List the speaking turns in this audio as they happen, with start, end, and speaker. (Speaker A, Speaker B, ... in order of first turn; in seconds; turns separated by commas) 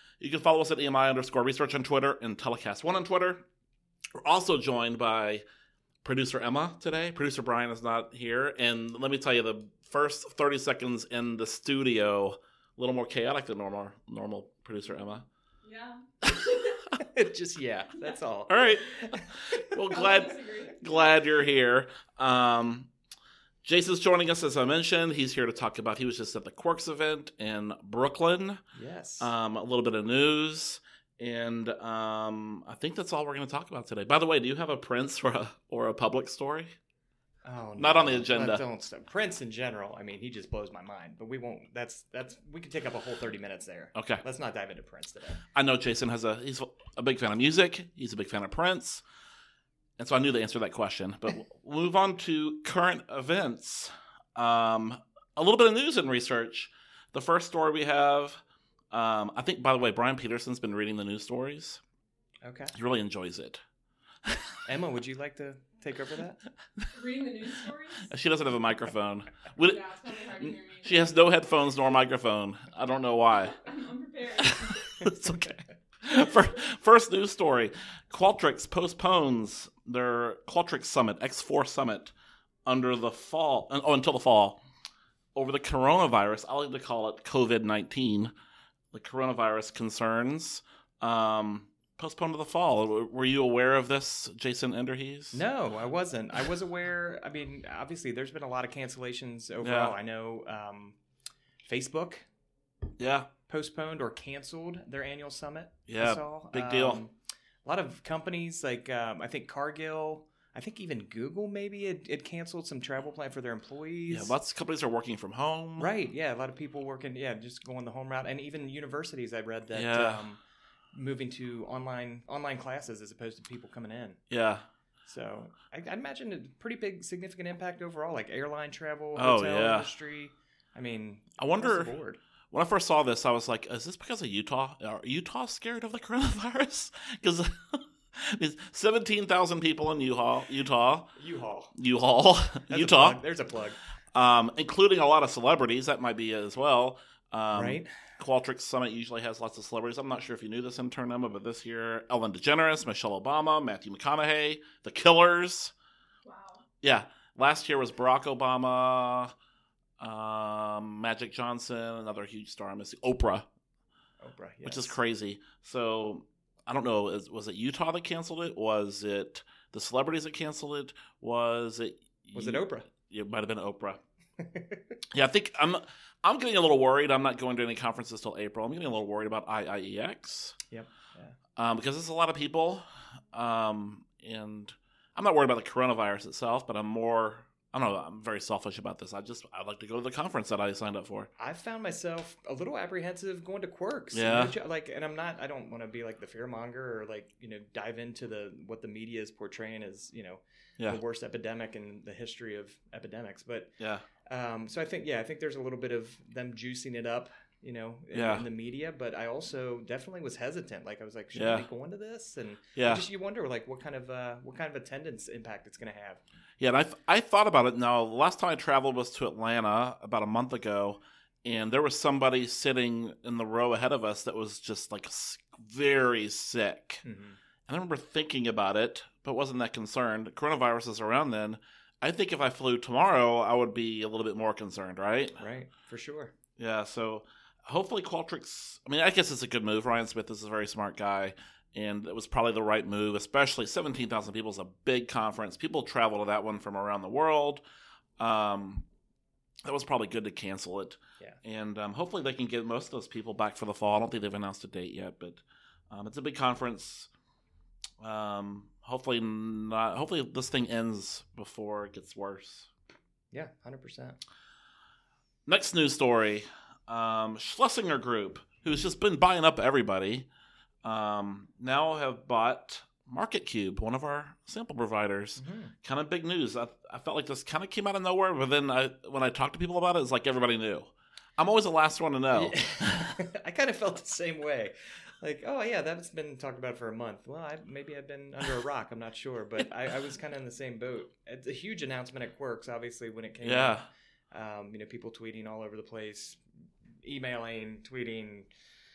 Speaker A: 0.2-3.4, Speaker A: 4.2-5.4, Speaker A: 6.0-15.2, Speaker B: 15.6-16.0, Speaker C: 16.9-19.8, Speaker A: 18.5-22.9, Speaker B: 19.9-20.9, Speaker A: 23.6-28.6, Speaker C: 28.7-29.3, Speaker A: 29.2-36.7, Speaker C: 37.4-45.4, Speaker A: 37.8-38.6, Speaker A: 43.9-44.2, Speaker A: 45.5-49.0, Speaker A: 50.0-58.4, Speaker A: 58.9-61.8, Speaker C: 62.4-62.7, Speaker A: 62.7-63.6, Speaker A: 64.2-64.5, Speaker C: 64.7-66.4, Speaker B: 66.9-68.1, Speaker A: 68.0-69.8, Speaker B: 69.6-71.1, Speaker A: 70.3-73.6, Speaker B: 73.5-75.1, Speaker A: 74.4-82.1, Speaker A: 82.7-84.6, Speaker A: 85.3-88.3, Speaker A: 88.9-95.4, Speaker C: 95.3-101.0, Speaker A: 99.6-99.9, Speaker C: 101.7-102.2, Speaker A: 103.0-103.3, Speaker C: 103.5-107.1, Speaker A: 105.9-107.0, Speaker C: 107.6-114.3, Speaker A: 114.1-115.9, Speaker C: 115.8-120.4, Speaker A: 119.7-120.2, Speaker C: 120.9-124.2, Speaker A: 124.3-124.6, Speaker C: 125.0-132.2, Speaker A: 129.2-129.9, Speaker A: 131.4-131.9, Speaker A: 132.5-141.1, Speaker C: 141.2-141.7, Speaker A: 141.7-143.2, Speaker C: 142.7-143.8, Speaker A: 144.1-155.7, Speaker C: 147.5-147.9, Speaker B: 156.2-156.6, Speaker A: 156.8-159.3, Speaker A: 160.0-163.5, Speaker C: 164.2-165.0, Speaker A: 164.6-174.0, Speaker C: 172.3-172.9, Speaker C: 174.4-175.0, Speaker A: 175.1-180.6, Speaker C: 180.7-181.3, Speaker A: 181.6-191.3, Speaker C: 191.4-203.7, Speaker A: 194.1-194.5, Speaker A: 203.8-204.0, Speaker C: 204.2-216.2, Speaker A: 208.1-208.4, Speaker A: 211.3-211.7, Speaker A: 212.8-213.1, Speaker A: 216.6-227.0, Speaker C: 227.0-227.4, Speaker A: 227.7-235.4, Speaker C: 235.4-236.3, Speaker A: 236.6-247.6, Speaker A: 248.2-248.8, Speaker A: 249.6-257.1, Speaker A: 258.0-262.7, Speaker C: 263.3-264.2, Speaker A: 265.4-270.3, Speaker A: 270.8-283.2, Speaker C: 275.4-275.7, Speaker C: 282.3-293.8, Speaker A: 293.4-293.9, Speaker C: 294.3-296.4, Speaker C: 297.0-298.5